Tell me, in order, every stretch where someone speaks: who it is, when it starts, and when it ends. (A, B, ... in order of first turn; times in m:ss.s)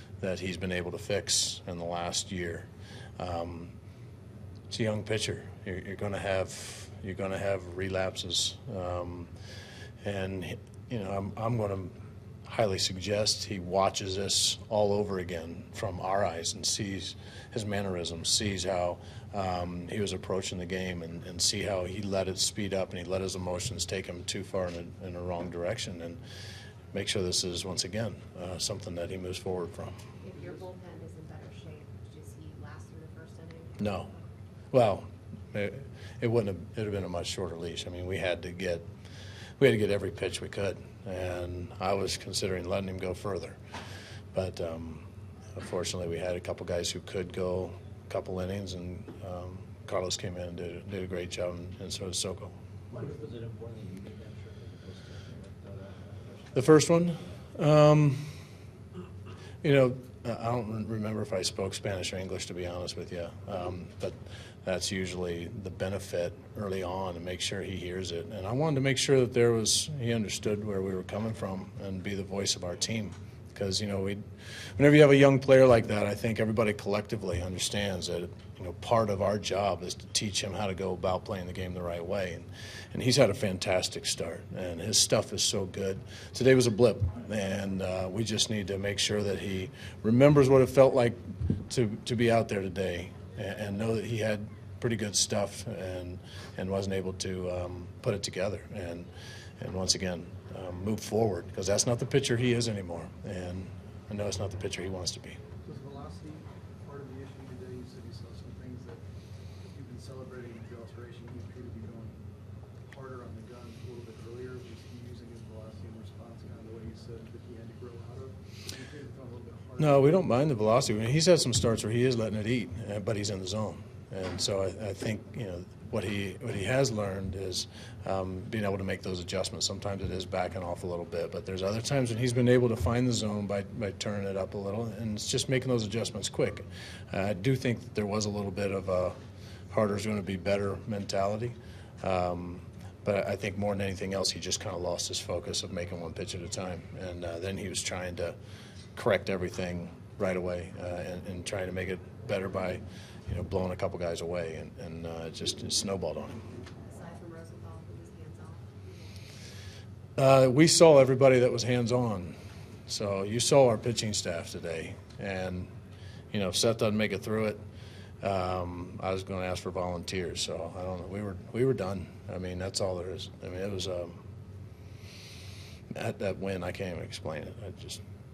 0:00.2-0:03.8 A
0:04.7-0:09.3 A
0:10.0-0:11.9 A
0:12.5-0:26.2 A
0:26.9-0:30.0 A
0:30.2-0:34.2 B
0:33.8-0:34.1 A
0:34.7-0:38.9 A
0:39.6-0:43.6 A
0:44.3-0:52.5 A
0:52.9-0:57.4 C
0:56.5-0:58.3 A
0:59.6-1:14.2 A
1:14.8-1:39.1 A
1:39.6-1:45.4 A
1:45.6-1:52.3 D
1:52.8-2:00.2 D
1:59.8-2:19.2 A
2:19.7-2:28.4 A
2:29.0-2:36.4 A
2:36.8-2:39.1 B
2:40.2-2:42.4 A
2:42.9-2:45.7 A
2:46.3-2:47.6 A
2:48.2-2:54.2 A
2:55.9-2:58.0 A